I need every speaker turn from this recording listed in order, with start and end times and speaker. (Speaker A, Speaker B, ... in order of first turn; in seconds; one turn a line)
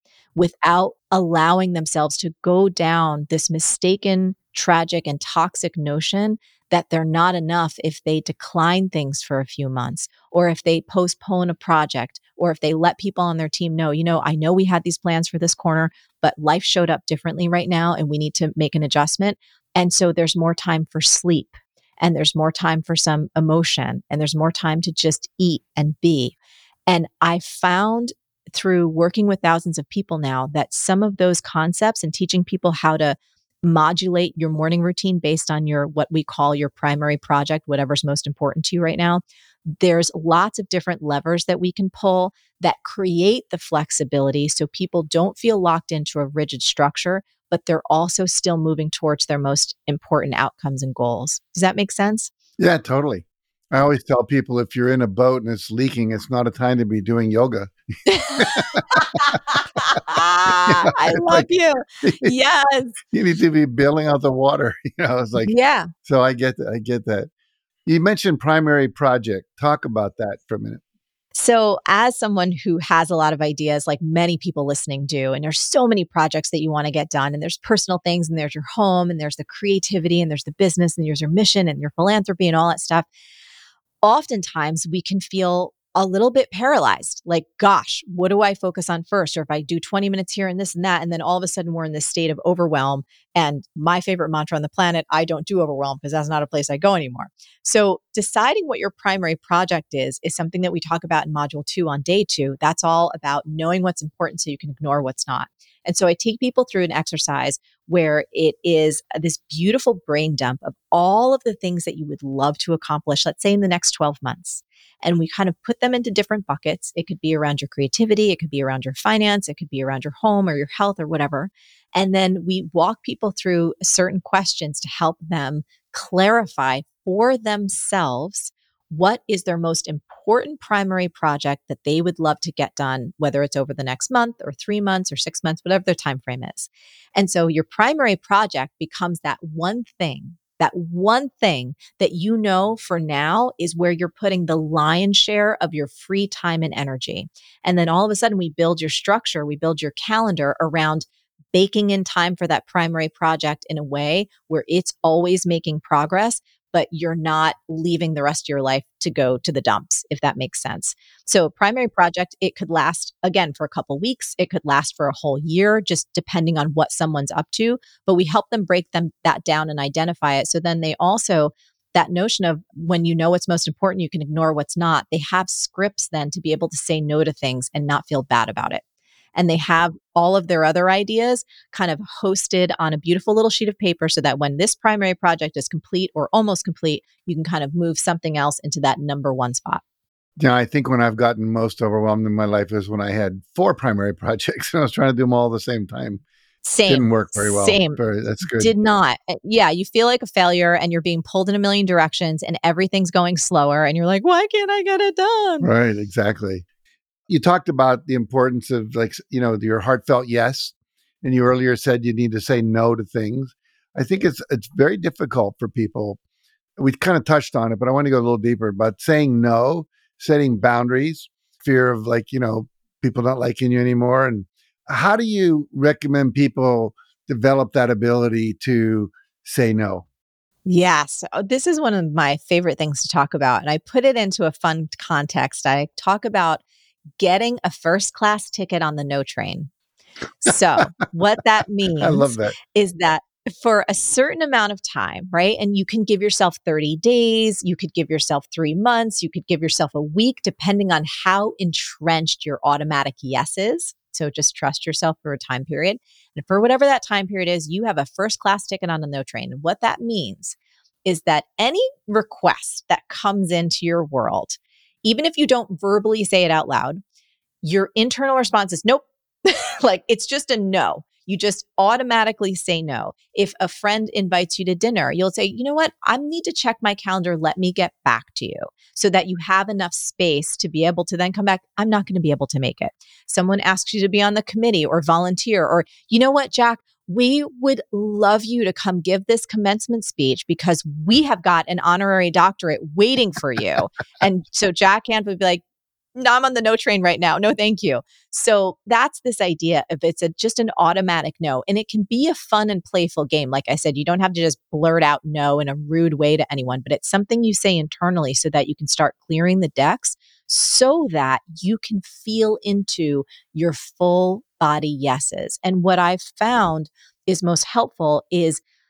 Speaker A: 0.3-26.3
Speaker A: 26.9-52.3
Speaker B: 52.6-57.7
Speaker A: 58.1-63.0
Speaker B: 58.4-59.4
Speaker B: 60.5-61.5
Speaker B: 62.0-62.3
Speaker B: 63.1-65.5
Speaker A: 65.4-65.9
Speaker B: 66.0-67.3
Speaker B: 67.8-70.8
Speaker A: 71.3-83.1
Speaker A: 84.0-178.8
Speaker A: 179.3-189.8
Speaker B: 190.4-196.2
Speaker A: 196.6-205.7
Speaker B: 196.8-198.7
Speaker B: 205.6-206.6
Speaker B: 207.3-216.2
Speaker B: 216.8-230.1
Speaker A: 230.7-236.6
Speaker A: 237.2-239.7
Speaker A: 240.4-267.0
Speaker B: 242.0-242.6
Speaker A: 267.6-295.6
Speaker A: 296.1-318.6